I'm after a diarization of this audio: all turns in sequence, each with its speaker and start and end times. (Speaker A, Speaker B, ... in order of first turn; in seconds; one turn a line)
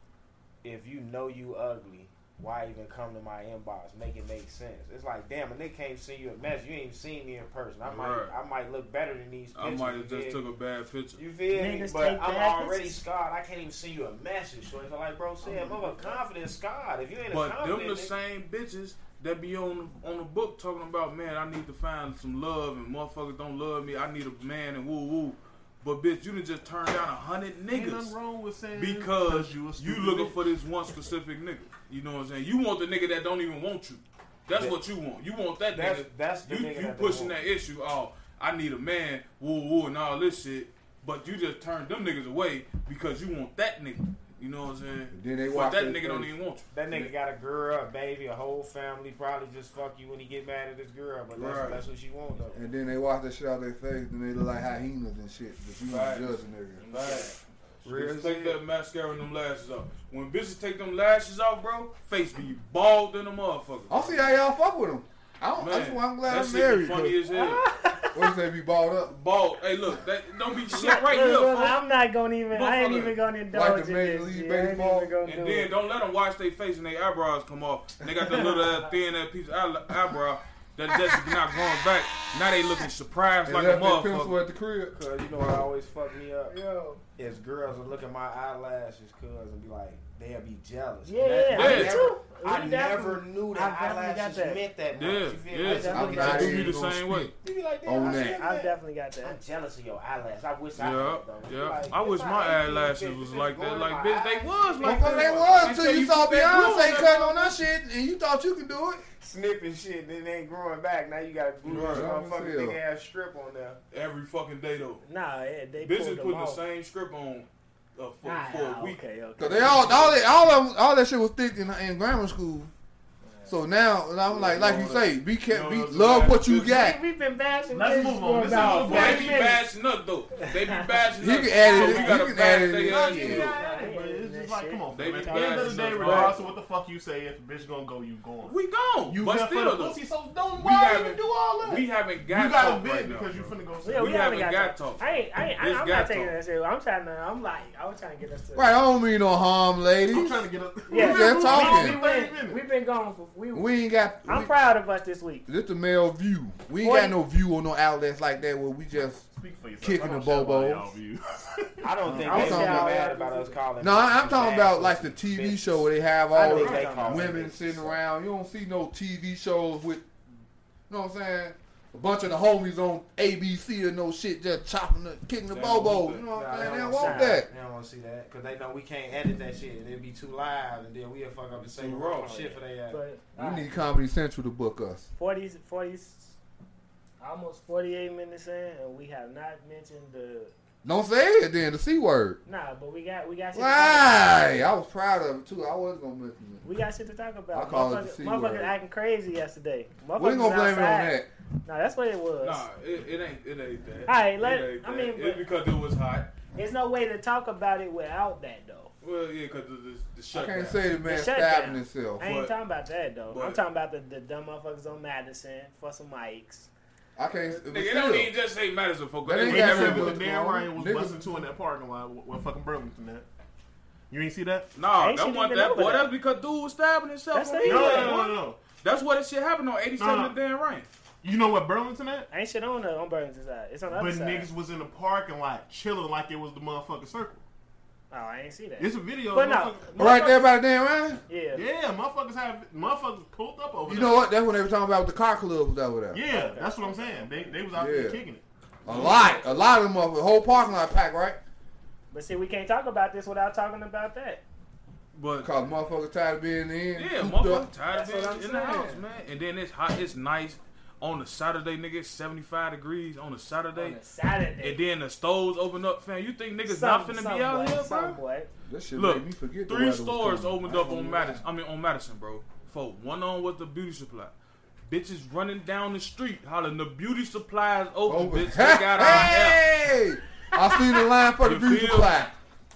Speaker A: 0.6-10.5
Speaker B: 7.8-8.3
Speaker B: 9.6-11.2
Speaker A: 11.2-18.1
Speaker C: 11.5-13.0
Speaker D: 15.4-16.2
Speaker B: 17.3-28.1
Speaker D: 27.7-30.4
Speaker B: 28.7-47.1
Speaker A: 35.7-37.4
Speaker E: 45.1-46.4
Speaker A: 46.7-52.6
Speaker B: 51.3-51.8
Speaker E: 52.5-56.9
Speaker B: 55.9-57.3
Speaker C: 56.8-57.4
Speaker A: 57.8-58.6
Speaker B: 57.9-64.2
Speaker E: 63.9-67.2
Speaker B: 65.6-67.6
Speaker C: 67.3-68.3
Speaker E: 68.1-69.2
Speaker B: 69.1-71.8
Speaker C: 70.7-75.7
Speaker B: 72.5-73.2
Speaker E: 73.5-75.1
Speaker B: 75.2-84.4
Speaker E: 83.5-85.6
Speaker A: 84.9-86.5
Speaker C: 86.5-87.0
Speaker A: 87.2-96.8
Speaker C: 91.0-94.6
Speaker B: 91.5-92.0
Speaker B: 95.0-97.3
Speaker C: 95.6-96.5
Speaker E: 95.8-97.3
Speaker A: 97.3-105.8
Speaker E: 97.8-98.4
Speaker C: 98.0-99.4
Speaker B: 100.8-107.6
Speaker E: 104.8-109.0
Speaker A: 109.2-113.8
Speaker B: 111.6-112.1
Speaker E: 111.8-112.8
Speaker B: 113.9-115.0
Speaker C: 115.0-116.6
Speaker B: 115.8-119.0
Speaker C: 118.2-120.3
Speaker E: 119.4-122.7
Speaker C: 123.2-123.5
Speaker E: 123.5-127.0
Speaker B: 124.3-127.0
Speaker C: 126.7-129.6
Speaker D: 127.7-129.5
Speaker B: 128.4-133.6
Speaker E: 131.2-133.5
Speaker C: 131.6-132.2
Speaker D: 133.1-144.2
Speaker C: 133.2-136.5
Speaker B: 134.9-136.4
Speaker B: 138.4-140.0
Speaker B: 140.6-145.0
Speaker C: 143.8-149.0
Speaker B: 145.6-146.3
Speaker E: 148.6-152.0
Speaker D: 150.1-152.6
Speaker C: 150.9-155.4
Speaker E: 153.5-154.5
Speaker E: 155.5-159.3
Speaker C: 156.8-157.2
Speaker D: 159.3-162.2
Speaker E: 159.8-160.9
Speaker A: 161.8-168.0
Speaker E: 162.1-163.0
Speaker C: 162.1-163.6
Speaker E: 163.8-170.1
Speaker C: 166.3-167.5
Speaker D: 166.5-167.3
Speaker E: 170.9-177.5
Speaker B: 175.5-176.2
Speaker A: 176.3-183.0
Speaker C: 176.9-177.4
Speaker B: 181.6-182.4
Speaker C: 182.2-183.7
Speaker E: 183.4-185.1
Speaker C: 185.2-186.4
Speaker C: 187.2-190.5
Speaker E: 190.8-192.4
Speaker C: 192.5-194.7
Speaker E: 193.5-196.6
Speaker C: 196.6-202.7
Speaker E: 197.5-198.7
Speaker E: 200.2-201.3
Speaker B: 202.4-206.3
Speaker C: 204.1-205.5
Speaker C: 206.5-208.9
Speaker B: 209.0-210.8
Speaker E: 210.3-212.3
Speaker C: 211.0-216.7
Speaker B: 212.2-212.5
Speaker B: 213.3-213.6
Speaker E: 217.2-218.3
Speaker B: 217.7-220.2
Speaker E: 219.2-221.3
Speaker D: 219.5-223.3
Speaker D: 224.1-224.7
Speaker B: 224.8-230.9
Speaker C: 225.0-226.1
Speaker C: 227.3-228.2
Speaker D: 227.6-228.6
Speaker D: 230.0-230.3
Speaker D: 231.2-232.3
Speaker C: 232.3-234.5
Speaker D: 233.9-237.4
Speaker C: 238.1-240.5
Speaker D: 238.8-240.3
Speaker E: 240.0-241.2
Speaker C: 241.3-241.6
Speaker D: 241.5-244.2
Speaker E: 243.9-246.2
Speaker D: 246.1-248.4
Speaker C: 246.2-247.6
Speaker E: 247.8-248.2
Speaker E: 248.8-251.4
Speaker C: 252.1-254.4
Speaker B: 255.1-255.5
Speaker E: 255.4-257.7
Speaker B: 256.9-264.0
Speaker C: 257.9-259.1
Speaker C: 263.7-264.8
Speaker B: 264.6-268.2
Speaker C: 266.7-268.5
Speaker E: 268.7-271.4
Speaker B: 268.9-274.3
Speaker B: 274.9-279.6
Speaker E: 278.1-282.4
Speaker B: 281.4-282.2